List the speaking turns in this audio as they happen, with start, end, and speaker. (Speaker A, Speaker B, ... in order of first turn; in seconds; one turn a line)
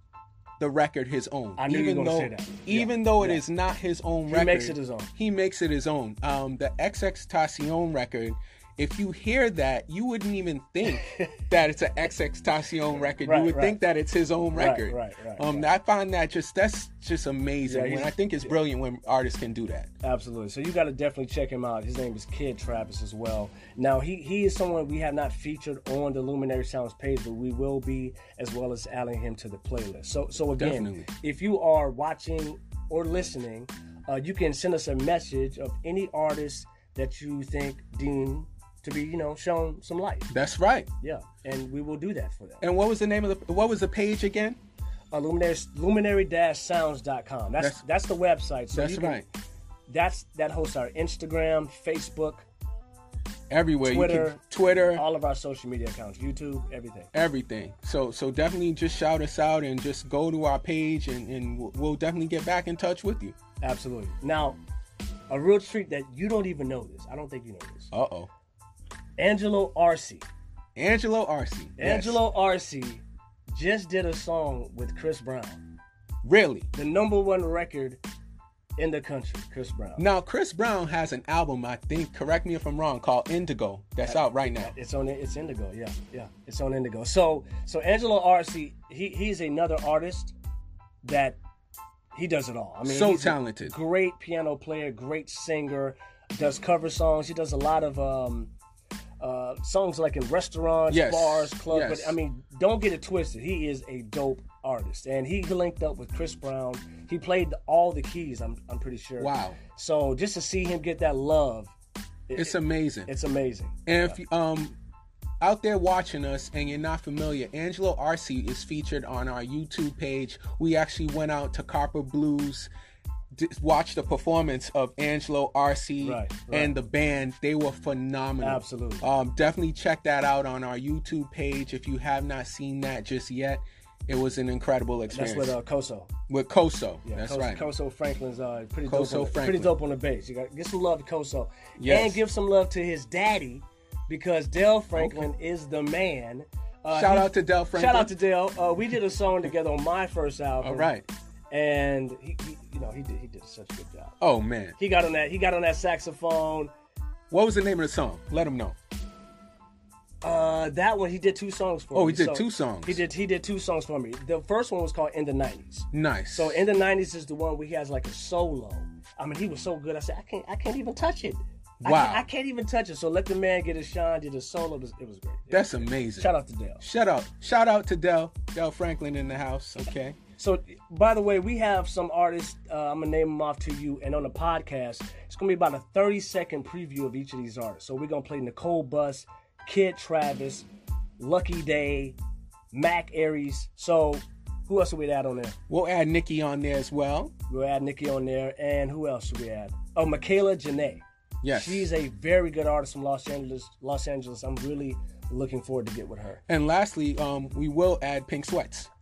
Speaker A: 0.6-19.9
Speaker B: 1.6-3.4
Speaker B: 4.3-5.1
Speaker B: 13.2-13.8
Speaker B: 14.5-15.7
Speaker B: 17.6-18.6
Speaker B: 20.0-40.3
Speaker A: 30.6-31.1
Speaker A: 40.3-40.9
Speaker B: 41.0-42.6
Speaker A: 42.6-44.6
Speaker B: 45.1-49.2
Speaker A: 47.6-47.8
Speaker A: 48.7-49.2
Speaker B: 49.9-52.5
Speaker A: 53.5-55.0
Speaker B: 53.8-54.4
Speaker B: 54.9-57.1
Speaker A: 57.1-63.3
Speaker B: 63.6-64.6
Speaker B: 65.3-67.9
Speaker A: 67.9-68.3
Speaker B: 69.2-70.2
Speaker A: 70.8-72.2
Speaker B: 71.8-75.6
Speaker A: 76.2-76.7
Speaker B: 76.7-78.0
Speaker B: 78.8-80.0
Speaker A: 80.0-84.7
Speaker B: 84.0-90.3
Speaker B: 91.0-91.4
Speaker B: 92.1-98.5
Speaker A: 92.8-93.7
Speaker B: 99.2-111.7
Speaker A: 100.9-102.2
Speaker A: 109.2-109.6
Speaker B: 112.3-114.2
Speaker A: 112.3-113.1
Speaker A: 113.9-114.7
Speaker A: 115.4-122.7
Speaker A: 123.3-135.6
Speaker B: 126.0-126.7
Speaker B: 128.4-129.1
Speaker B: 135.1-136.1
Speaker A: 136.3-137.6
Speaker B: 137.0-150.9
Speaker A: 138.8-139.7
Speaker A: 141.8-142.2
Speaker A: 144.9-145.3
Speaker A: 146.9-148.1
Speaker A: 150.6-151.1
Speaker B: 151.5-154.1
Speaker A: 154.2-154.8
Speaker B: 154.8-156.7
Speaker A: 157.3-158.8
Speaker B: 160.2-176.8
Speaker A: 161.9-163.0
Speaker A: 165.9-166.6
Speaker A: 171.8-172.2
Speaker A: 175.5-180.2
Speaker B: 180.4-190.7
Speaker B: 191.2-192.2
Speaker B: 192.7-195.6
Speaker A: 195.7-197.3
Speaker B: 197.5-206.4
Speaker A: 201.4-201.9
Speaker A: 206.5-208.9